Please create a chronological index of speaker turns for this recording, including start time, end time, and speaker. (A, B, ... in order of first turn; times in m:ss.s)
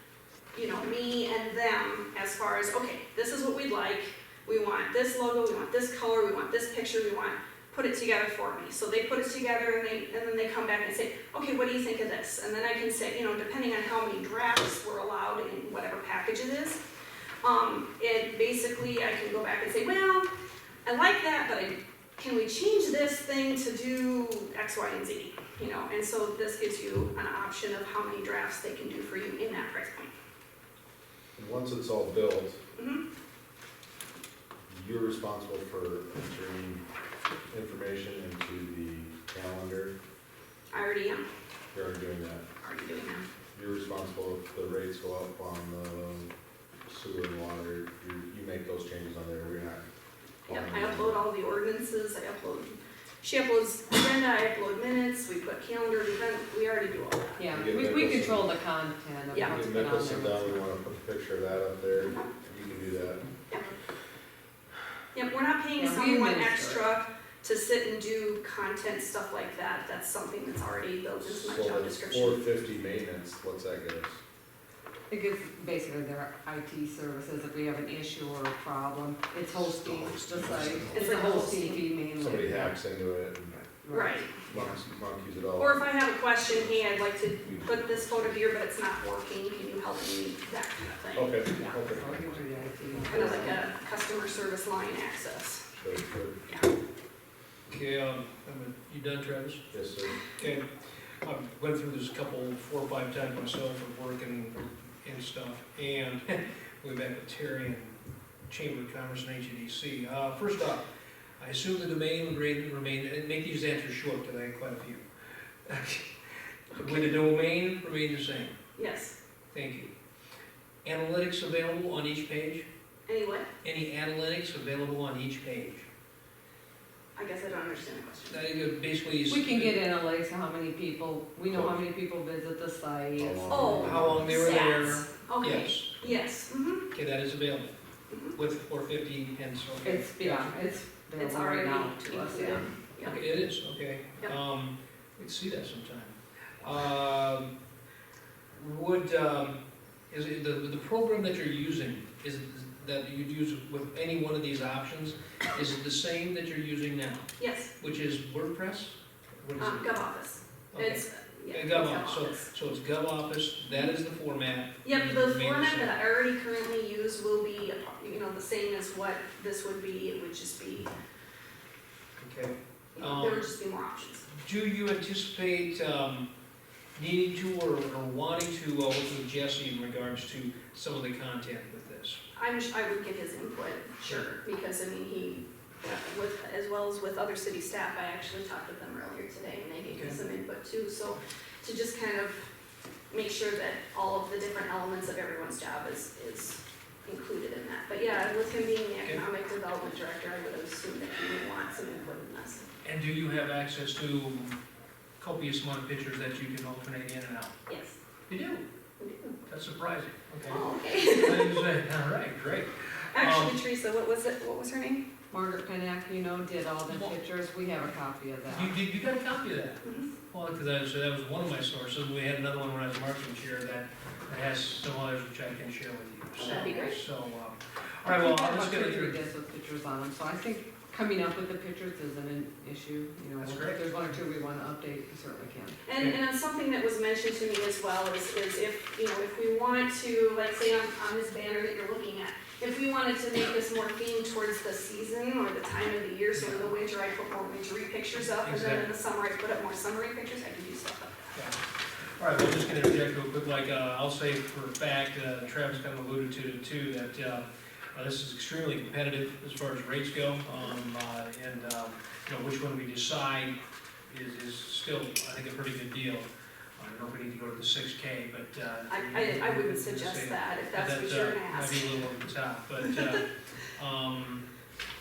0:00.5-0:16.8 A
0:17.4-0:20.3 A
0:20.8-0:30.1 A
0:31.4-0:32.6 B
0:32.8-0:33.0 A
0:34.7-0:36.8 B
0:37.5-0:40.0 B
0:40.7-0:41.2 A
0:41.7-0:42.5 B
0:42.6-0:43.2 A
0:43.5-0:46.3 B
0:46.9-0:49.8 B
0:50.5-0:57.5 A
0:50.5-0:51.2 B
0:57.4-1:00.6 C
0:57.5-0:58.5 B
0:59.4-1:03.3 B
1:02.0-1:02.3 A
1:05.1-1:12.4 A
1:05.8-1:06.8 C
1:11.2-1:14.2 B
1:15.1-1:22.8 C
1:19.8-1:21.0 B
1:20.9-1:21.8 A
1:22.2-1:23.6 B
1:23.6-1:24.7 C
1:23.9-1:24.3 A
1:24.5-1:25.9 B
1:25.6-1:31.8 A
1:27.5-1:28.1 B
1:31.1-1:32.2 B
1:31.9-1:33.6 C
1:33.1-1:35.7 A
1:33.1-1:33.5 B
1:35.7-1:36.4 B
1:37.7-1:39.7 D
1:39.7-1:40.2 B
1:40.3-1:40.7 D
1:41.2-1:48.0 D
1:48.5-1:50.9 D
1:51.4-1:55.0 D
1:55.7-1:56.1 D
1:56.7-1:57.1 A
1:56.7-1:58.6 D
1:58.8-1:59.2 A
1:59.5-1:59.9 D
2:00.8-2:02.7 D
2:03.1-2:03.5 A
2:03.6-2:05.9 D
2:07.2-2:08.5 A
2:08.3-2:09.8 D
2:09.3-2:15.1 C
2:11.5-2:11.8 B
2:13.2-2:14.4 B
2:13.5-2:16.9 A
2:13.8-2:16.1 D
2:16.9-2:17.7 D
2:18.1-2:18.4 A
2:18.3-2:20.6 D
2:19.8-2:22.7 C
2:21.2-2:23.2 A
2:23.0-2:27.5 D
2:28.5-2:29.6 D
2:30.1-2:40.0 D
2:37.4-2:37.7 A
2:39.6-2:42.5 A
2:40.7-2:46.0 D
2:44.8-2:50.9 A
2:52.2-2:53.5 D
2:53.0-2:54.2 A
2:54.3-2:56.3 D
2:57.0-3:02.2 D
3:02.4-3:12.5 A
3:09.9-3:10.2 D
3:13.1-3:22.6 A
3:22.8-3:24.6 D
3:25.2-3:27.6 D
3:27.7-3:28.0 A
3:28.3-3:28.6 D
3:29.0-3:29.4 A
3:29.5-3:33.6 D
3:30.5-3:31.7 A
3:33.1-3:35.0 A
3:35.3-3:38.7 C
3:36.9-3:37.2 D
3:38.5-3:49.2 D
3:39.8-3:40.1 A
3:46.4-3:47.0 A
3:48.1-3:55.8 C
3:53.4-3:53.9 D
3:55.8-4:11.4 A
4:06.4-4:06.7 D
4:08.2-4:08.9 D
4:12.2-4:17.4 D
4:17.9-4:23.6 D
4:24.1-4:34.4 D
4:28.9-4:31.9 A